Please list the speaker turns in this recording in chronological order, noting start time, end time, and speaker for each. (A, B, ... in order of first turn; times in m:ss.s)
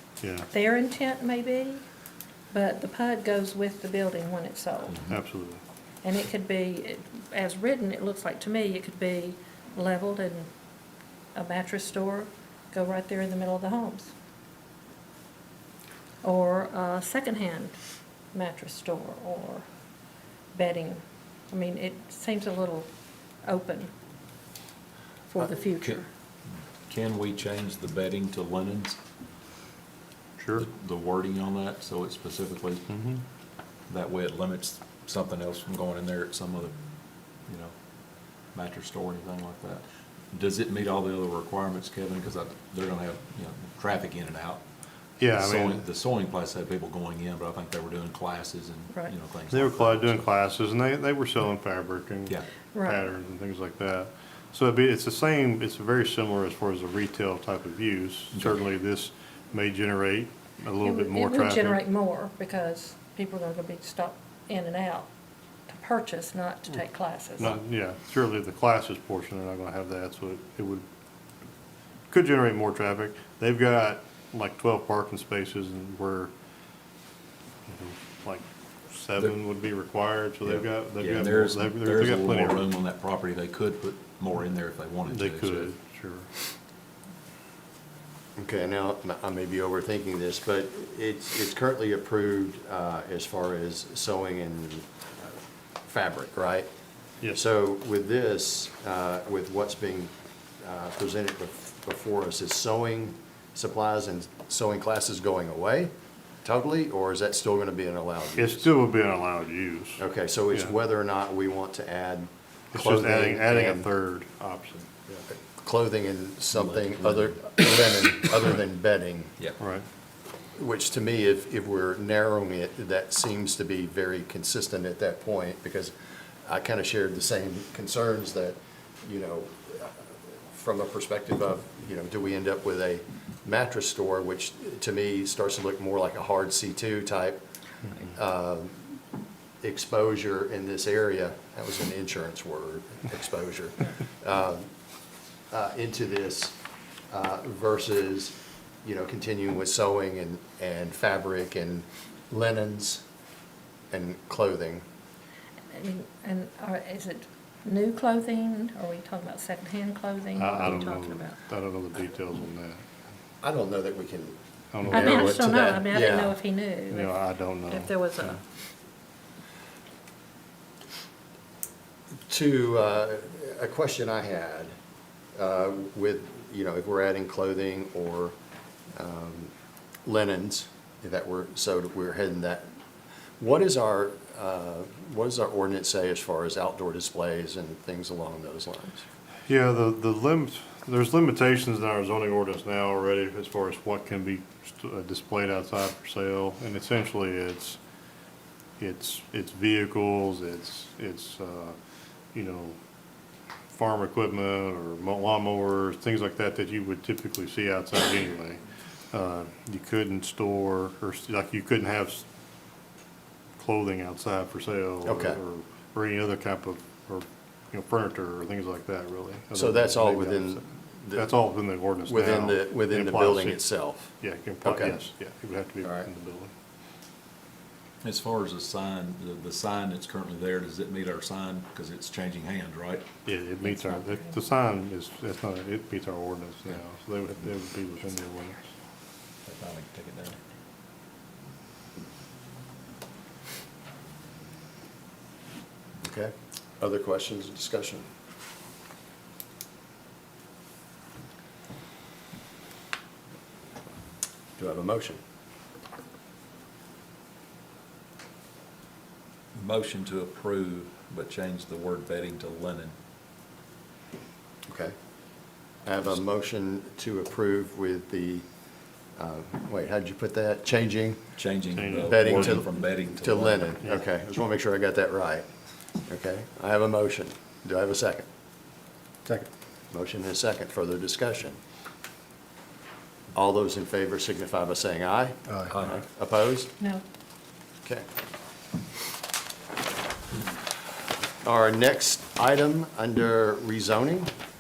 0:00.2-0:00.5 A
0:00.5-0:01.8 B
0:02.5-0:05.0 B
0:05.1-0:05.6 A
0:06.0-0:10.5 B
0:11.4-0:14.1 B
0:16.2-0:17.8 B
0:18.3-0:19.6 B
0:20.5-0:22.9 B
0:23.4-0:23.9 B
0:25.3-0:26.1 B
0:26.9-0:29.0 C
0:30.4-0:30.7 A
0:30.6-0:32.9 C
0:32.9-0:33.2 A
0:33.9-0:36.7 C
0:37.5-0:37.7 C
0:38.5-0:44.6 C
0:45.2-0:45.8 A
0:45.3-0:50.3 C
0:49.5-1:01.8 A
0:52.7-0:53.0 B
0:58.3-0:58.6 C
1:00.8-1:05.1 B
1:05.7-1:07.6 B
1:07.4-1:10.9 A
1:12.1-1:16.3 A
1:17.7-1:22.7 A
1:20.4-1:25.7 C
1:25.1-1:26.3 A
1:28.4-1:36.7 D
1:37.3-1:45.9 D
1:46.4-1:48.7 D
1:48.4-1:50.0 A
1:50.0-1:53.9 D
1:52.7-1:55.2 A
1:55.3-1:59.4 D
1:56.5-1:57.4 C
1:59.6-1:59.9 A
2:00.6-2:05.9 D
2:06.4-2:17.4 D
2:18.0-2:19.0 D
2:19.6-2:24.7 D
2:25.5-2:26.6 D
2:27.1-2:33.0 D
2:33.9-2:34.8 D
2:35.7-2:41.4 B
2:40.4-2:42.8 A
2:43.4-2:46.4 D
2:44.7-2:45.5 A
2:44.9-2:47.2 B
2:46.9-2:48.4 A
2:47.7-2:48.4 B
2:52.3-2:54.8 D
2:55.4-2:58.4 D
2:58.9-2:59.5 D
3:00.1-3:02.7 D
3:03.4-3:09.0 D
3:09.5-3:17.8 A
3:18.8-3:21.8 A
3:22.3-3:22.8 A
3:23.7-3:32.2 A
3:33.6-3:40.6 A
3:35.0-3:35.4 D
3:39.5-3:41.3 D
3:41.2-3:43.6 A
3:42.1-3:44.1 D
3:44.2-3:46.5 A
3:44.6-3:45.0 D
3:45.8-3:46.1 D
3:48.0-3:53.1 C
3:53.2-3:58.7 A
3:53.6-3:54.5 B
3:59.4-4:00.4 C
4:06.0-4:08.1 D
4:14.6-4:15.2 D
4:19.6-4:22.9 C
4:24.7-4:24.9 D
4:25.8-4:28.5 D
4:29.2-4:31.2 D
4:31.4-4:33.8 C
4:31.7-4:32.7 A
4:32.0-4:35.5 D
4:36.1-4:38.3 D
4:39.9-4:41.6 D
4:43.3-4:46.7 D
4:45.7-4:45.9 C
4:51.4-4:54.3 D